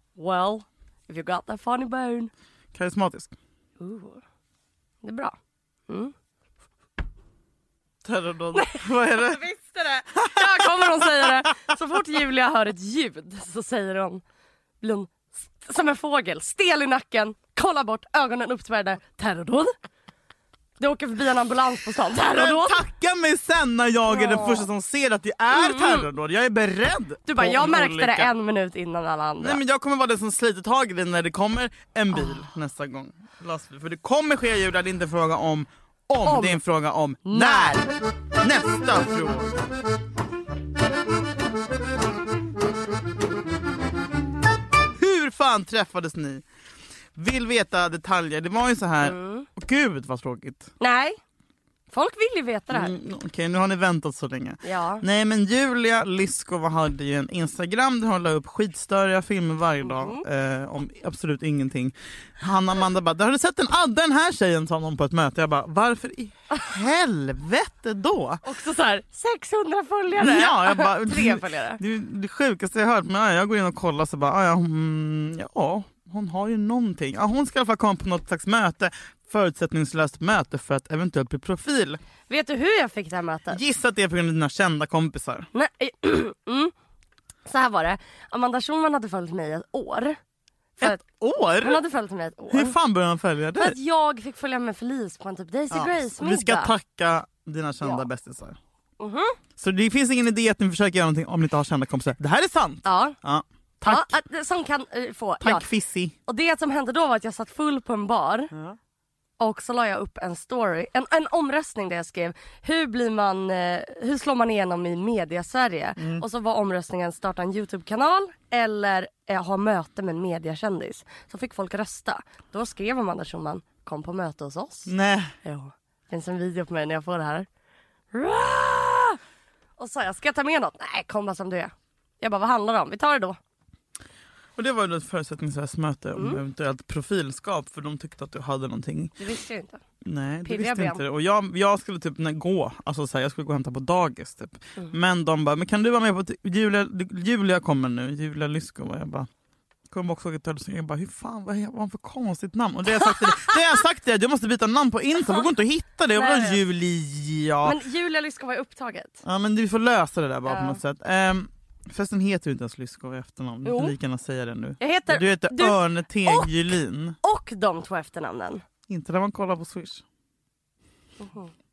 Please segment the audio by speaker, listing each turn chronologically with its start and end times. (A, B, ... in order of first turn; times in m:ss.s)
0:00.2-0:02.3 A
0:02.7-0:03.3 B
0:03.8-0:04.2 A
0:05.0-0:05.4 A
0:05.9-0:06.1 A
0:08.0-0:09.4 B
0:08.5-0:14.2 A
0:10.2-0:11.4 B
0:14.8-0:19.7 A
0:20.8-0:22.8 A
0:22.3-0:28.3 B
0:24.1-0:24.7 A
0:25.5-0:26.1 A
0:27.2-0:29.6 A
0:29.4-0:39.7 B
0:36.2-0:36.6 A
0:37.2-0:37.9 A
0:45.0-0:46.4 B
0:47.1-0:50.7 B
0:49.0-0:49.5 A
0:50.8-0:51.2 A
0:51.9-0:52.9 A
0:52.7-1:08.4 B
0:54.6-0:55.0 A
0:59.8-1:00.2 A
1:08.4-1:11.8 A
1:10.2-1:22.0 B
1:22.3-1:23.6 A
1:23.5-1:25.5 B
1:25.5-1:26.7 A
1:27.4-1:30.2 A
1:30.8-1:31.0 A
1:30.8-1:31.8 B
1:31.6-1:32.8 A
1:32.5-1:33.8 B
1:33.5-1:36.7 A
1:35.7-1:38.6 B
1:37.8-1:38.0 A
1:39.0-1:39.4 A
1:39.6-1:44.1 B
1:42.8-1:43.2 A
1:43.8-1:45.7 A
1:45.4-1:46.1 B
1:46.2-1:48.5 A
1:49.4-2:07.5 A
1:56.0-1:56.2 B
2:04.9-2:05.3 B
2:08.1-2:09.2 A
2:09.8-2:13.4 A
2:14.6-2:19.2 B
2:16.1-2:16.4 A
2:19.2-2:19.8 A
2:20.0-2:29.3 B
2:20.4-2:21.0 A
2:29.9-2:37.8 B
2:33.0-2:33.7 A
2:36.1-2:36.6 A
2:37.6-2:39.2 A
2:39.2-2:47.2 B
2:40.4-2:40.8 A
2:43.6-2:43.9 A
2:44.8-2:48.6 A
2:48.9-2:50.0 B
2:51.2-2:51.5 A